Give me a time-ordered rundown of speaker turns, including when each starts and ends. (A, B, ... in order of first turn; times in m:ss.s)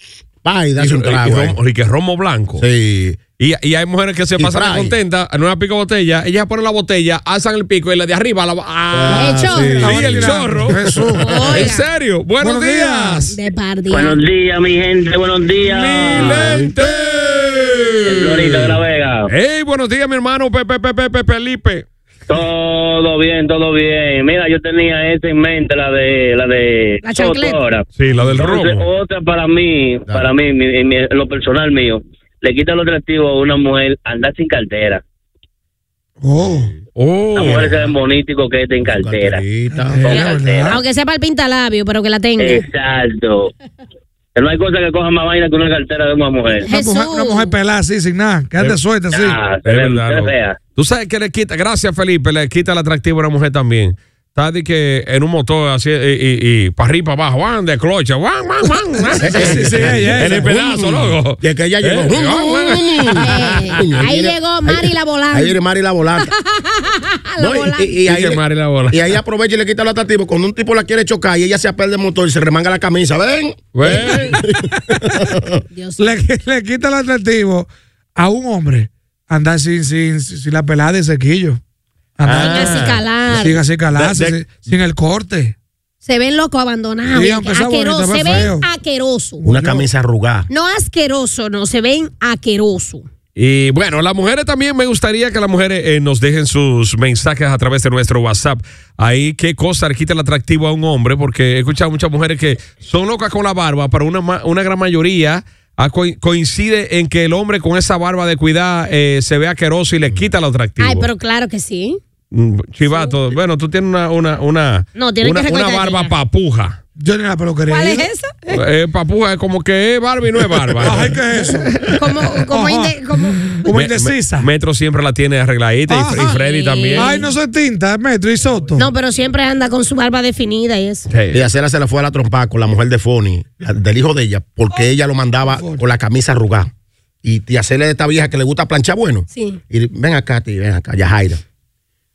0:00.4-0:01.6 A
0:00.8-0:02.6 B
0:02.6-0:03.2 A
0:03.4-0:10.8 B
0:04.4-0:05.0 A
0:08.9-0:11.1 A
0:09.1-0:11.7 C
0:09.2-0:09.8 D
0:11.1-0:11.8 D
0:11.5-0:13.3 B
0:12.4-0:13.3 C
0:13.3-0:14.2 D
0:13.9-0:16.5 E
0:15.6-0:18.8 B
0:18.1-0:19.3 E
0:19.3-0:21.8 B
0:22.3-0:35.0 E
0:27.0-0:27.6 D
0:28.0-0:28.8 B
0:36.2-0:36.7 C
0:37.0-0:37.7 B
0:37.4-0:39.4 E
0:37.4-0:37.9 A
0:38.8-0:40.0 A
0:39.7-0:40.8 C
0:40.0-0:40.7 E
0:40.7-0:42.6 D
0:42.4-0:43.5 E
0:44.4-0:46.7 E
0:46.6-0:49.4 C
0:46.7-0:47.5 D
0:49.1-0:50.6 E
0:49.6-1:03.2 B
0:59.2-1:06.3 A
0:59.3-1:00.5 C
1:03.2-1:05.6 D
1:06.2-1:07.9 D
1:07.4-1:15.5 A
1:08.1-1:09.0 B
1:13.7-1:14.4 B
1:15.7-1:16.2 D
1:16.0-1:21.6 C
1:22.2-1:25.6 C
1:22.3-1:22.9 A
1:22.3-1:22.9 B
1:22.4-1:23.6 D
1:23.9-1:24.5 B
1:26.0-1:29.4 D
1:27.1-1:28.7 C
1:29.4-1:29.8 C
1:29.4-1:30.5 A
1:30.5-1:33.1 D
1:33.4-1:51.1 B
1:50.8-1:52.0 D
1:52.3-1:56.8 B
1:52.9-1:53.2 D
1:55.0-1:56.1 D
1:57.0-1:58.1 C
1:57.7-1:58.6 D
1:58.5-2:01.9 B
2:00.8-2:01.7 C
2:02.0-2:03.7 D
2:02.5-2:04.5 C
2:03.7-2:07.1 B
2:05.9-2:06.3 C
2:06.2-2:07.3 D
2:06.9-2:08.9 C
2:08.8-2:11.1 D
2:11.1-2:11.4 B
2:11.3-2:16.7 A
2:15.5-2:15.8 C
2:17.2-2:21.4 A
2:19.3-2:19.6 D